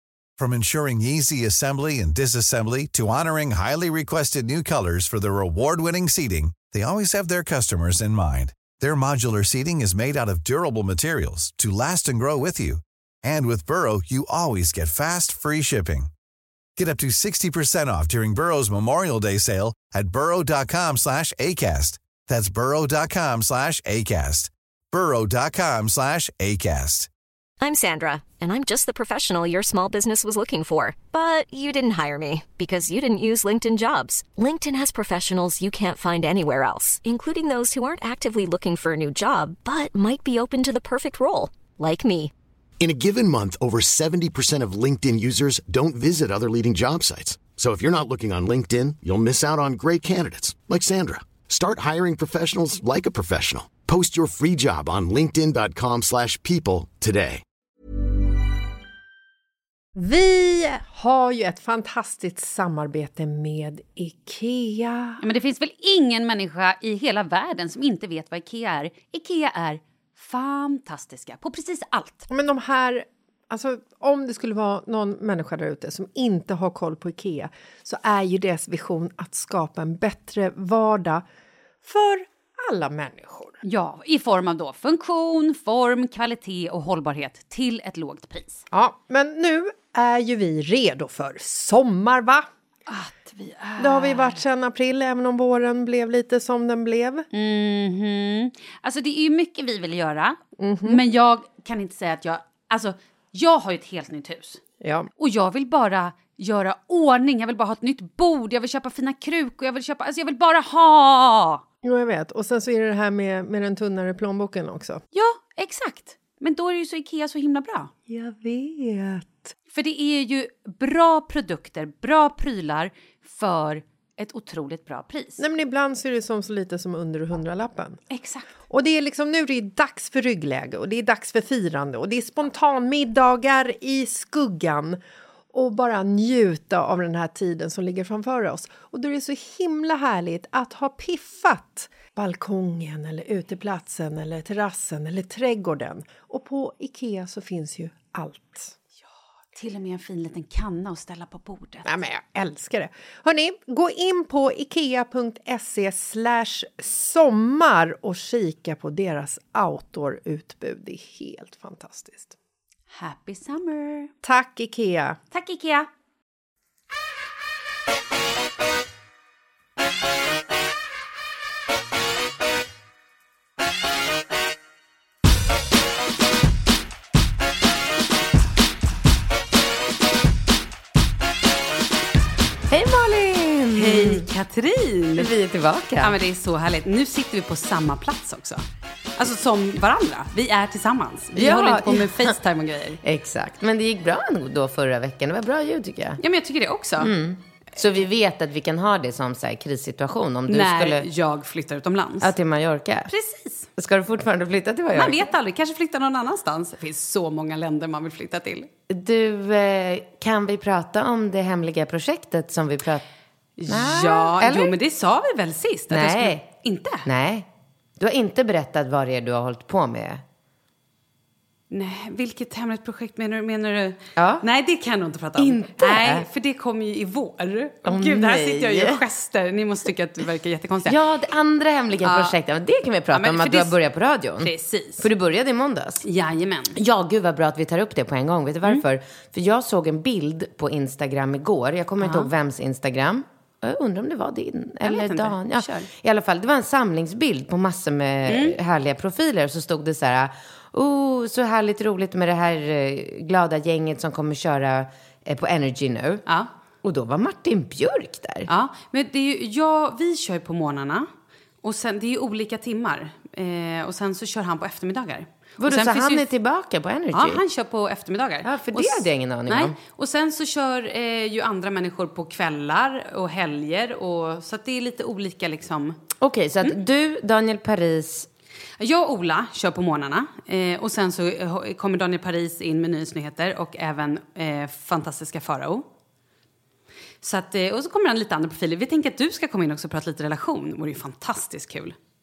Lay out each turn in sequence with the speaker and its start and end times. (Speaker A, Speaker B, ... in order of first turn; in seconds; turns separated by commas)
Speaker A: 0.4-16.1, Speaker A: 16.8-27.1, Speaker B: 27.6-42.3, Speaker C: 42.8-57.4, Speaker D: 59.9-65.2, Speaker E: 65.2-72.3, Speaker D: 72.3-81.2, Speaker D: 81.8-83.5, Speaker E: 83.6-88.6, Speaker D: 88.7-92.5, Speaker E: 92.9-94.4, Speaker D: 93.8-97.3, Speaker E: 97.3-104.6, Speaker D: 100.6-101.0, Speaker D: 104.8-105.1, Speaker E: 105.2-111.6, Speaker D: 111.8-115.0, Speaker E: 115.1-117.9, Speaker D: 118.1-119.5, Speaker E: 119.7-125.4, Speaker D: 125.4-128.0, Speaker E: 128.1-128.4, Speaker D: 128.7-135.0, Speaker D: 135.5-148.7, Speaker E: 149.5-151.8, Speaker D: 151.8-162.3, Speaker E: 162.9-164.1, Speaker D: 164.2-165.2, Speaker E: 165.3-165.9, Speaker F: 182.7-184.2, Speaker E: 183.7-185.3, Speaker F: 185.2-186.2, Speaker E: 186.0-188.6, Speaker E: 189.2-193.0, Speaker F: 191.3-192.3, Speaker F: 193.0-196.2, Speaker E: 196.2-197.1, Speaker F: 197.0-201.1, Speaker E: 200.5-202.3, Speaker F: 202.2-203.1, Speaker E: 203.1-203.7, Speaker F: 203.8-205.3, Speaker E: 204.9-208.7, Speaker F: 208.9-213.1, Speaker E: 213.6-217.1, Speaker F: 213.7-214.7, Speaker F: 215.9-216.4, Speaker F: 217.0-220.2, Speaker E: 221.7-231.0, Speaker F: 224.2-224.4, Speaker F: 225.4-226.3, Speaker F: 227.8-229.0, Speaker F: 230.8-236.0, Speaker E: 232.0-232.3, Speaker E: 233.1-233.8, Speaker E: 234.4-235.1, Speaker E: 236.0-236.8, Speaker F: 236.7-256.2, Speaker E: 242.0-242.3, Speaker E: 244.8-245.9, Speaker E: 248.3-248.6, Speaker F: 256.8-258.5, Speaker E: 258.5-261.1, Speaker E: 261.6-266.3, Speaker F: 265.6-267.4, Speaker E: 267.1-276.0, Speaker F: 268.4-269.8, Speaker F: 276.2-278.3, Speaker E: 278.8-285.9, Speaker E: 287.2-291.9